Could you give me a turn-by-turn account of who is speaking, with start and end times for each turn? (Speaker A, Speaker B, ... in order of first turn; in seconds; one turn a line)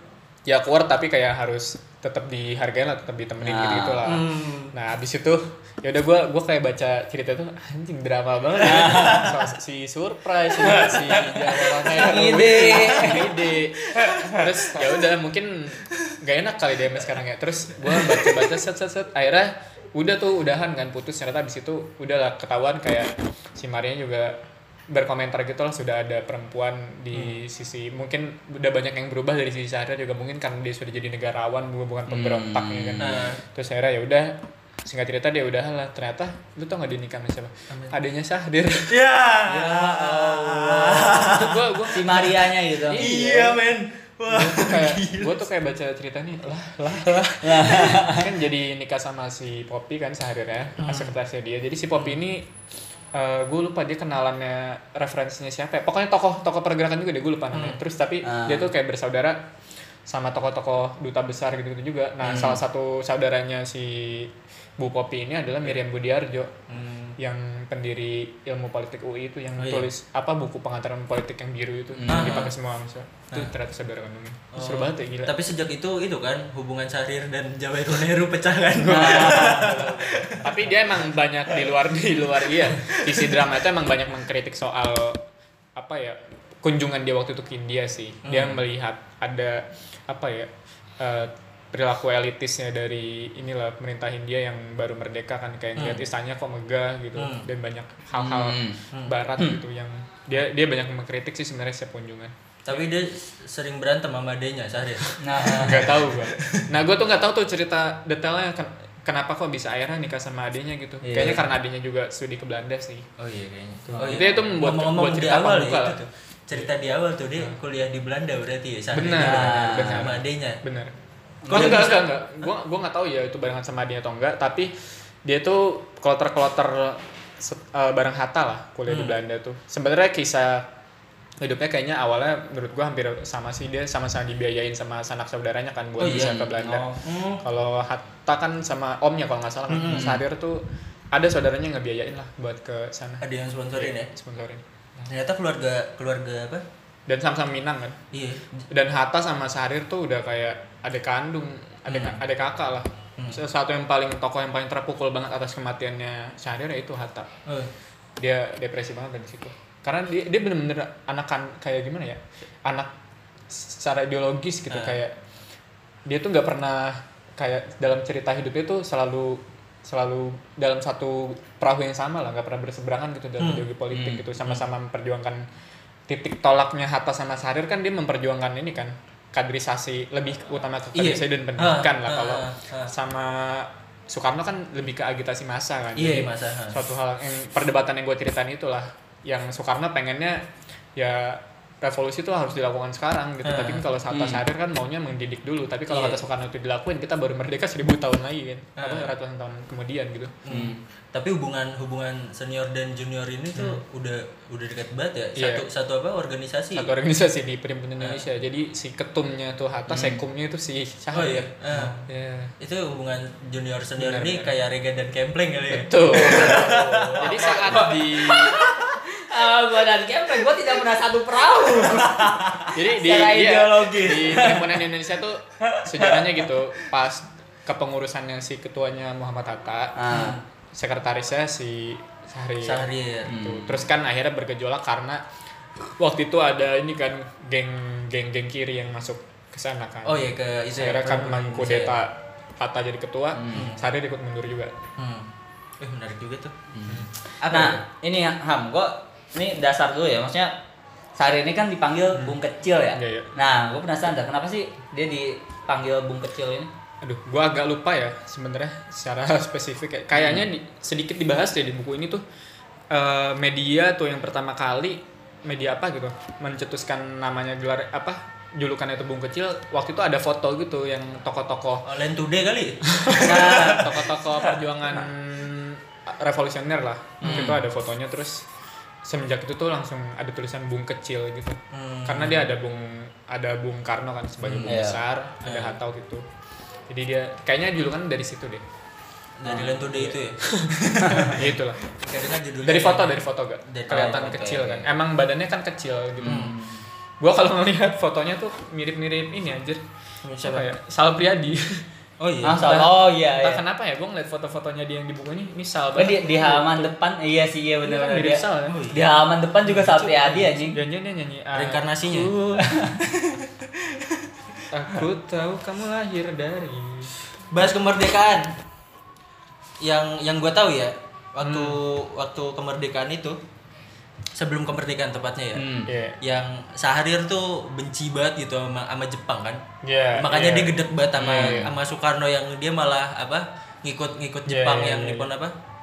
Speaker A: 0.5-24.4
Speaker B: 3.4-4.0
Speaker C: 4.0-4.7
Speaker B: 8.7-9.4
Speaker C: 8.8-9.3
Speaker C: 10.6-14.8
Speaker B: 11.8-13.2
Speaker C: 17.9-18.4
Speaker A: 24.9-39.0
Speaker B: 32.1-33.1
Speaker C: 33.0-33.4
Speaker C: 37.7-38.0
Speaker C: 38.9-42.3
Speaker B: 39.5-41.3
Speaker A: 41.2-42.4
Speaker B: 41.9-43.0
Speaker A: 42.9-43.6
Speaker C: 42.9-45.4
Speaker A: 44.3-52.5
Speaker B: 47.3-48.3
Speaker C: 50.8-51.1
Speaker A: 53.1-59.4
Speaker C: 57.5-57.8
Speaker B: 58.2-58.7
Speaker A: 60.1-66.6
Speaker B: 62.2-62.6
Speaker C: 66.7-67.2
Speaker A: 67.2-75.4
Speaker C: 69.6-69.9
Speaker B: 72.0-72.4
Speaker C: 72.1-72.5
Speaker C: 74.5-80.7
Speaker A: 78.8-85.2
Speaker B: 78.9-79.9
Speaker C: 82.6-83.5
Speaker A: 85.8-102.3
Speaker C: 88.2-88.6
Speaker C: 95.8-96.0
Speaker C: 97.2-97.5
Speaker B: 98.2-98.8
Speaker C: 102.6-106.7
Speaker B: 105.2-106.0
Speaker A: 105.6-113.1
Speaker B: 111.0-111.4
Speaker C: 113.2-120.6
Speaker B: 113.9-114.2
Speaker A: 114.0-116.0
Speaker A: 118.9-120.9
Speaker B: 119.0-120.1
Speaker B: 121.4-122.0
Speaker C: 121.5-122.5
Speaker A: 121.5-124.7
Speaker A: 125.2-130.7
Speaker C: 128.9-129.2
Speaker A: 131.4-136.9
Speaker C: 136.0-137.4
Speaker A: 137.4-145.1
Speaker C: 139.7-140.2
Speaker B: 139.9-140.2
Speaker C: 143.2-144.1
Speaker C: 145.1-146.6
Speaker A: 147.1-148.0
Speaker C: 148.1-148.6
Speaker A: 148.7-157.3
Speaker C: 151.9-152.2
Speaker C: 157.5-157.7
Speaker A: 158.2-162.9
Speaker A: 163.5-165.2
Speaker C: 164.7-165.0
Speaker A: 166.1-175.5
Speaker C: 173.4-173.7
Speaker B: 173.9-174.2
Speaker A: 176.1-200.3
Speaker C: 180.9-182.9
Speaker C: 186.0-186.8
Speaker C: 193.4-194.2
Speaker B: 194.1-194.4
Speaker C: 195.9-196.2
Speaker C: 198.8-199.1
Speaker C: 200.4-206.9
Speaker B: 200.5-200.8
Speaker A: 205.4-205.6
Speaker A: 206.7-212.5
Speaker C: 208.0-208.2
Speaker B: 209.9-210.2
Speaker C: 211.1-212.0
Speaker C: 212.6-217.9
Speaker A: 214.0-214.5
Speaker A: 215.7-218.6
Speaker B: 216.0-222.2
Speaker C: 221.8-222.8
Speaker A: 222.7-230.0
Speaker B: 222.9-224.3
Speaker C: 223.9-224.8
Speaker B: 230.0-230.4
Speaker C: 230.1-230.4
Speaker A: 230.7-235.2
Speaker C: 232.6-233.5
Speaker B: 233.2-233.8
Speaker A: 236.0-244.7
Speaker C: 240.1-242.0
Speaker B: 243.4-243.7
Speaker C: 243.5-243.8
Speaker C: 245.0-246.5
Speaker B: 246.7-250.5
Speaker C: 247.4-247.8
Speaker B: 251.2-256.7
Speaker A: 252.9-253.3
Speaker A: 257.0-262.2
Speaker A: 262.9-271.9
Speaker C: 271.9-274.5
Speaker A: 273.0-278.4
Speaker C: 277.2-277.6
Speaker B: 277.2-277.6
Speaker A: 279.0-286.2
Speaker C: 281.7-282.5
Speaker C: 284.4-284.8
Speaker B: 284.6-285.0
Speaker C: 285.4-285.8
Speaker A: 286.9-288.6
Speaker C: 289.4-294.3
Speaker A: 289.5-290.8
Speaker B: 291.0-291.3
Speaker A: 291.3-291.8
Speaker A: 292.6-296.5
Speaker B: 293.9-294.9
Speaker B: 296.2-296.9
Speaker C: 296.2-296.5
Speaker A: 297.2-299.8
Speaker C: 300.2-300.7
Speaker A: 300.4-301.9
Speaker C: 302.2-302.8
Speaker B: 302.4-303.6
Speaker A: 302.5-306.9
Speaker B: 306.0-310.8
Speaker A: 307.8-308.8
Speaker C: 308.7-309.1
Speaker C: 309.6-310.5
Speaker A: 310.7-312.6
Speaker C: 311.5-312.3
Speaker B: 312.6-313.0
Speaker C: 313.0-314.2
Speaker A: 314.7-317.1
Speaker C: 317.5-318.5
Speaker C: 319.8-323.4
Speaker A: 321.4-321.8
Speaker C: 324.4-325.6
Speaker B: 325.6-325.9
Speaker A: 325.9-326.2
Speaker C: 326.2-329.6
Speaker A: 329.8-331.7
Speaker C: 330.1-335.5
Speaker B: 331.1-331.7
Speaker A: 334.5-335.3